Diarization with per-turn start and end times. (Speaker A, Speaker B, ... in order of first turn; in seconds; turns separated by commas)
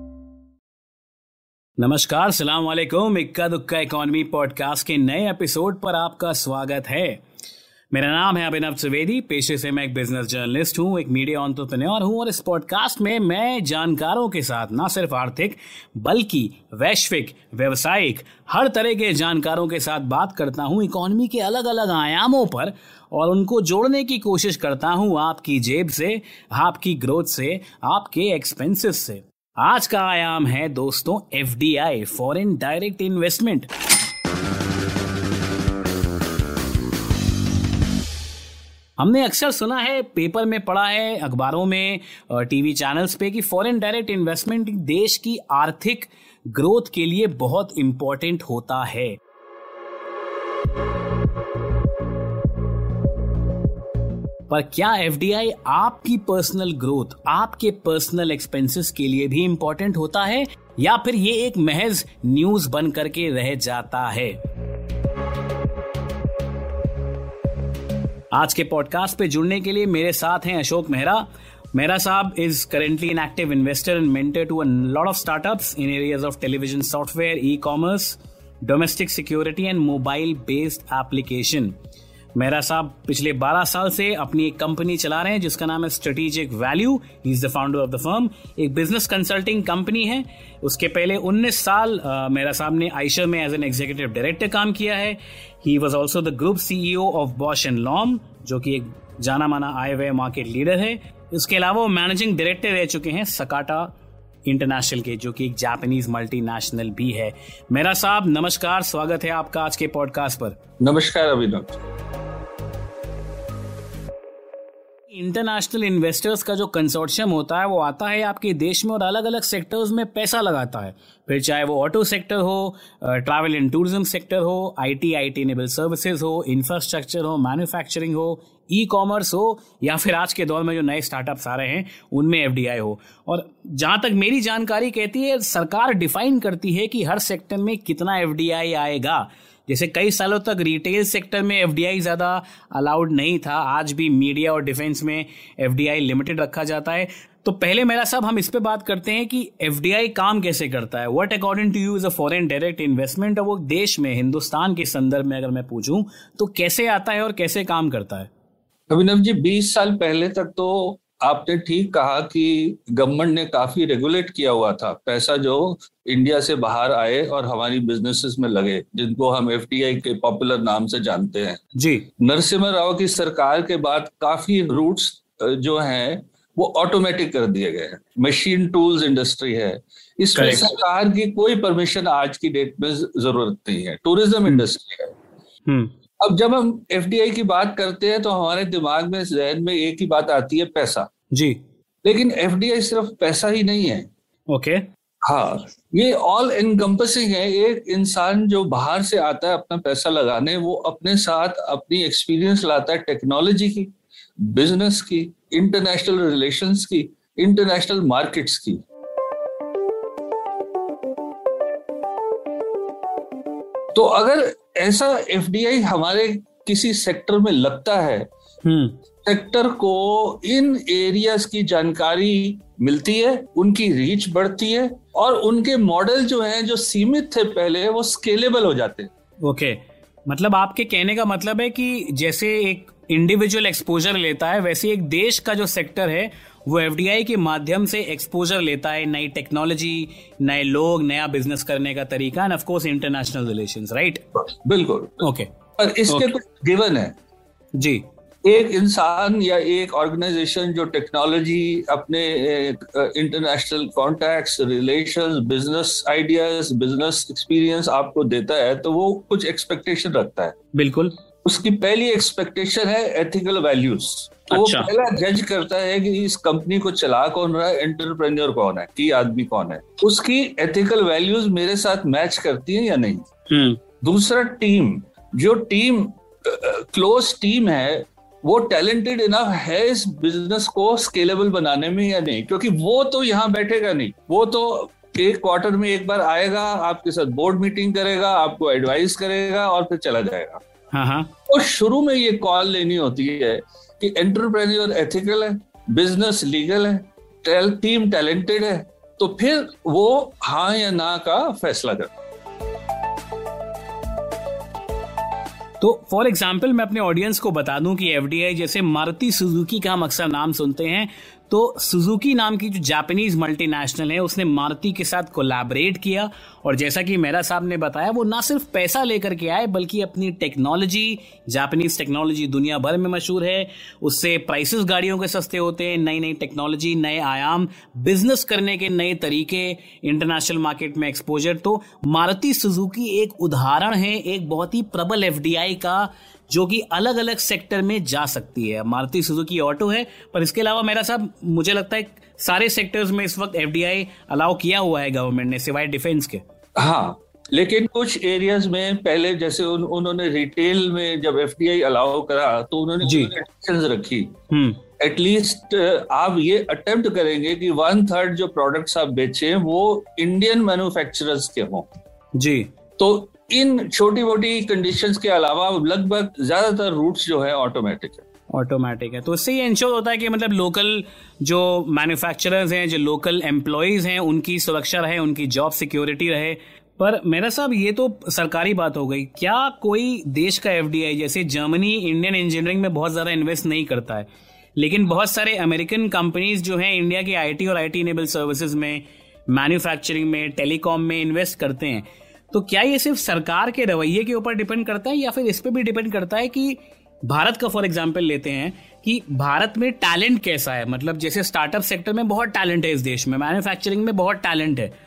Speaker A: 1.8-7.2, Speaker A: 7.9-33.7, Speaker A: 39.0-49.1, Speaker A: 54.5-64.3, Speaker A: 68.3-81.7, Speaker A: 82.4-103.9, Speaker A: 104.5-110.6, Speaker B: 110.8-111.8, Speaker A: 115.1-158.3, Speaker B: 158.9-171.6, Speaker A: 171.8-172.1, Speaker B: 172.2-185.1, Speaker A: 180.3-180.7, Speaker A: 185.7-185.9, Speaker B: 186.2-191.1, Speaker A: 191.3-191.6, Speaker B: 192.0-194.1, Speaker A: 194.5-194.8, Speaker B: 195.2-208.8, Speaker B: 213.9-218.3, Speaker A: 218.6-218.9, Speaker B: 219.2-229.1, Speaker A: 229.4-244.2, Speaker B: 244.6-245.2, Speaker A: 245.2-245.5, Speaker B: 245.8-247.1, Speaker A: 247.8-248.0, Speaker B: 248.4-260.6, Speaker A: 260.7-261.1, Speaker B: 261.4-273.3, Speaker A: 264.5-264.9, Speaker A: 273.5-273.8, Speaker B: 274.0-290.6, Speaker A: 290.9-291.3, Speaker B: 291.5-302.1, Speaker A: 305.8-346.4, Speaker B: 346.8-354.3, Speaker A: 353.0-353.3, Speaker A: 354.5-354.8, Speaker B: 355.0-361.9, Speaker A: 362.4-362.7, Speaker B: 363.0-368.2, Speaker A: 368.5-404.9